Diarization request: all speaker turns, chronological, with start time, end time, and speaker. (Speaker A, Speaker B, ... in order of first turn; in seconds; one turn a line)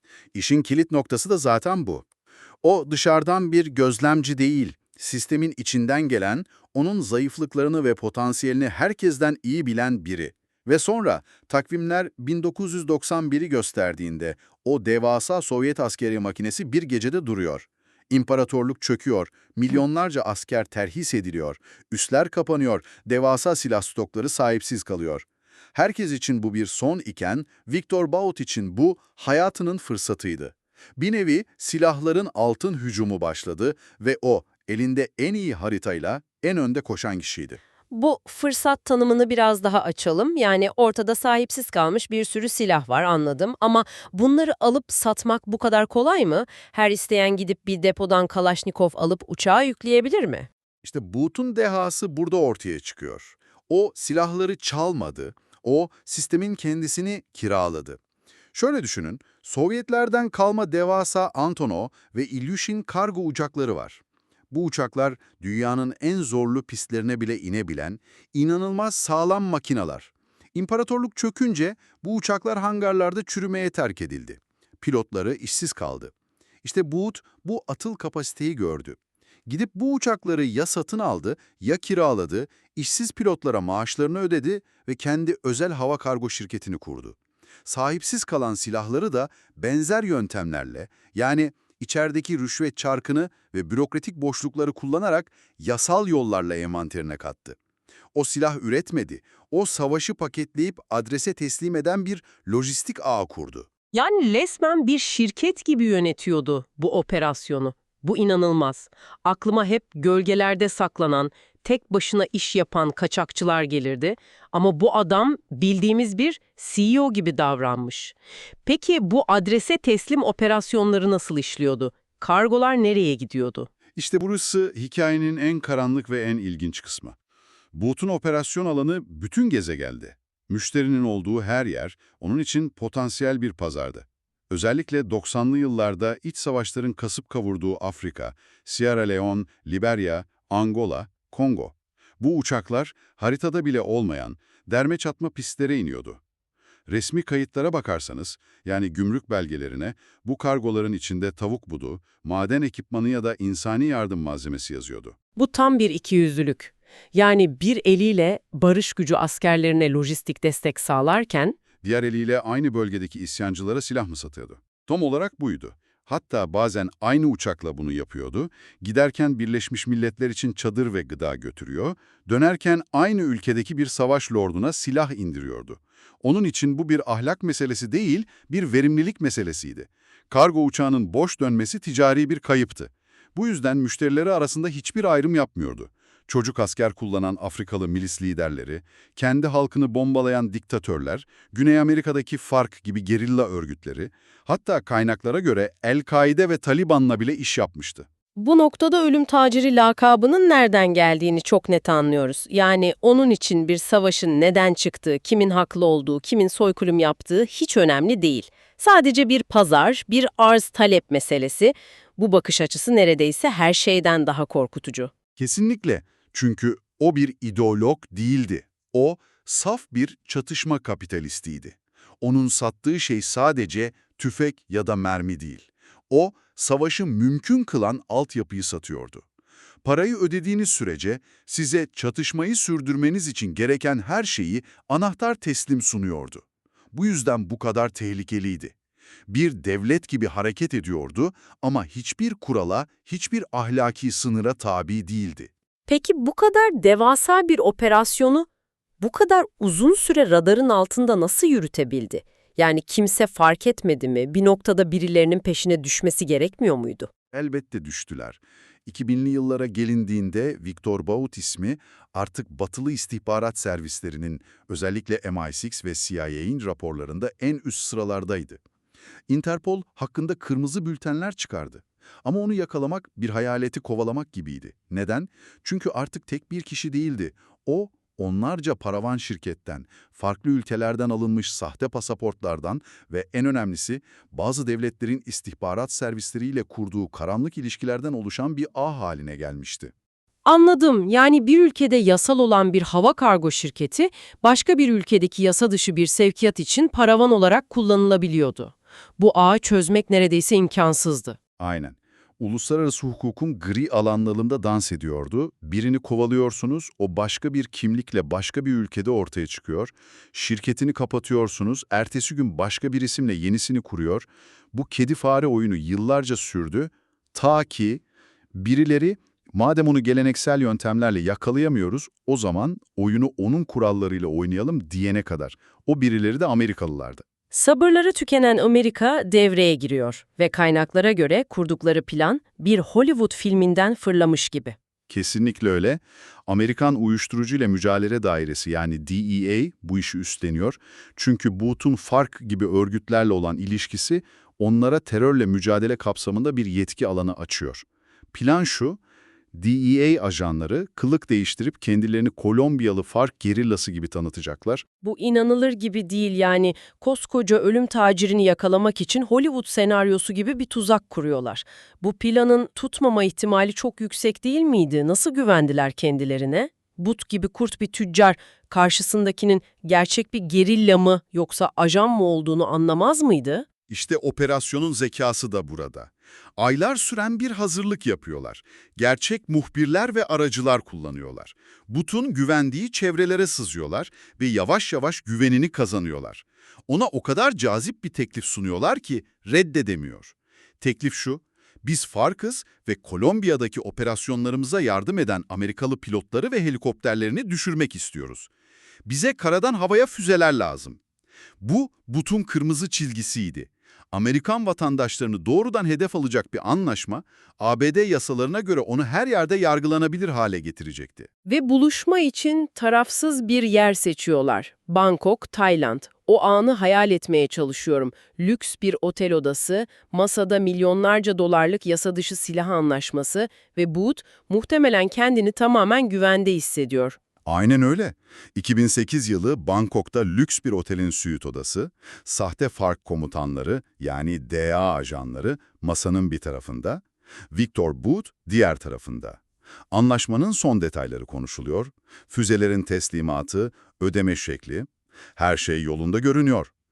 Speaker A: 0.3-2.0
Speaker A: 2.6-37.6
Speaker B: 37.9-50.5
Speaker A: 50.8-58.0
Speaker A: 58.5-97.6
Speaker A: 98.1-103.7
Speaker B: 103.9-123.7
Speaker A: 123.9-127.2
Speaker A: 127.7-146.2
Speaker A: 146.9-155.2
Speaker B: 155.3-161.6
Speaker A: 161.8-198.1
Speaker B: 198.3-215.1
Speaker A: 215.4-229.2
Speaker A: 229.8-238.7
Speaker A: 239.3-245.5
Speaker B: 245.9-248.5
Speaker B: 249.0-257.1
Speaker A: 257.3-268.6
Speaker A: 269.3-289.9
Speaker B: 290.4-301.4
Speaker A: 301.6-318.0
Speaker A: 318.5-327.2
Speaker B: 327.5-334.8
Speaker A: 335.1-349.0
Speaker A: 349.5-354.8
Speaker B: 355.0-373.6
Speaker A: 373.9-398.5
Speaker A: 399.0-401.0
Speaker A: 401.6-411.3
Speaker B: 411.4-427.2
Speaker A: 427.4-439.4
Speaker A: 439.9-446.7